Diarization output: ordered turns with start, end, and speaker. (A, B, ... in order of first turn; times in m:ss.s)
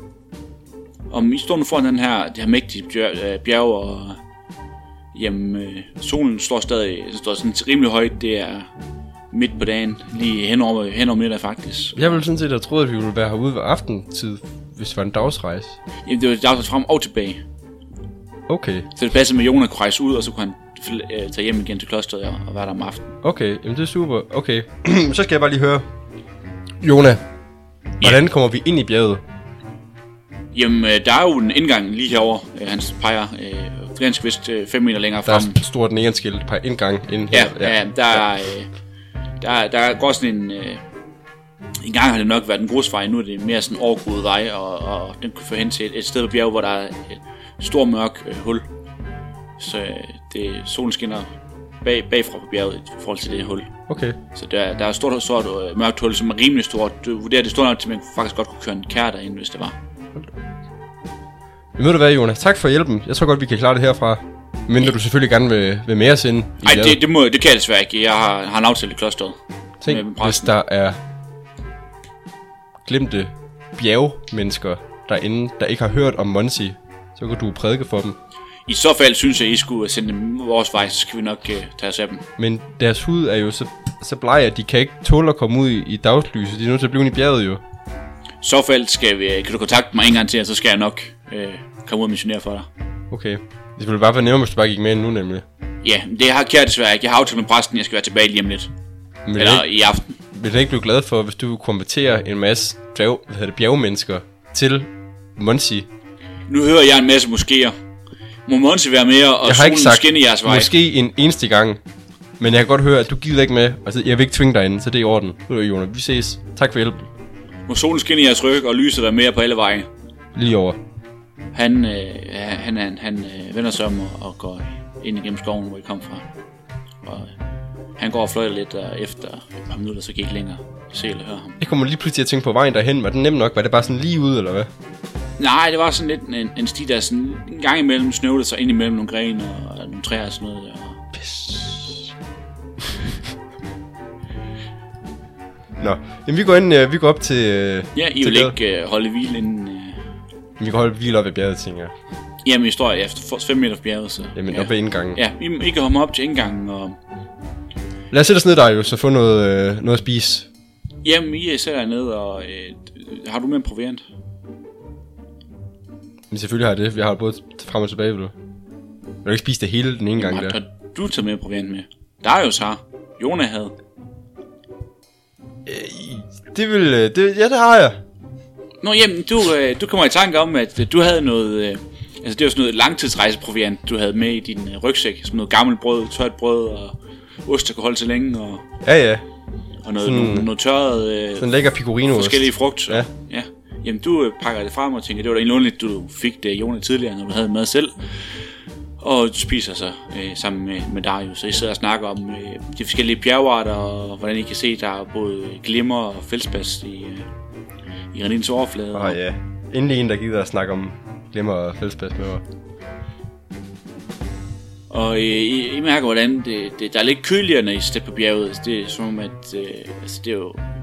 0:01.1-0:04.2 A
0:05.1-0:08.7 A
0:09.3-0:12.2 A
0:12.0-0:15.8 B
0:16.0-0:17.4 A
0:18.5-0:18.9 B
0:19.0-0:23.1 A
0:23.2-0:25.9 B
0:26.8-0:27.2 B
0:28.0-0:29.2 B
0:30.5-0:35.6 A
0:35.3-0:38.2 B
0:37.3-0:38.7 A
0:39.4-0:40.8 A
0:41.8-0:48.6 A
0:49.6-0:51.3 A
0:51.8-0:53.7 A
0:53.9-0:54.2 B
0:54.3-0:59.8 A
1:01.8-1:07.0 B
1:06.6-1:10.5 A
1:09.8-1:11.0 B
1:12.8-1:18.2 B
1:18.6-1:22.2 A
1:22.4-1:27.6 B
1:28.4-1:32.7 A
1:33.1-1:35.4 B
1:35.8-1:38.7 A
1:39.3-1:39.6 B
1:39.4-1:40.2 A
1:40.3-1:45.9 B
1:46.5-1:47.7 A
1:48.4-1:50.7 A
1:49.4-1:51.8 B
1:52.4-1:57.1 B
1:57.7-1:59.9 A
2:00.3-2:00.8 B
2:01.5-2:06.3 A
2:07.0-2:07.3 A
2:08.0-2:11.6 A
2:11.6-2:14.7 B
2:15.4-2:21.0 A
2:21.1-2:22.1 B
2:25.8-2:28.6 B
2:28.0-2:30.0 A
2:30.6-2:31.9 B
2:32.4-2:37.0 A
2:34.4-2:35.2 B
2:38.1-2:40.5 B
2:41.0-2:44.0 A
2:46.3-2:48.3 B
2:49.2-2:50.6 B
2:50.2-2:53.7 A
2:55.6-2:58.0 B
2:58.8-3:08.6 A
3:08.8-3:09.2 B
3:09.8-3:11.5 A
3:10.0-3:10.5 B
3:11.4-3:13.1 B
3:12.0-3:18.4 A
3:19.0-3:27.3 A
3:28.1-3:29.2 A
3:28.9-3:32.4 B
3:34.9-3:40.6 A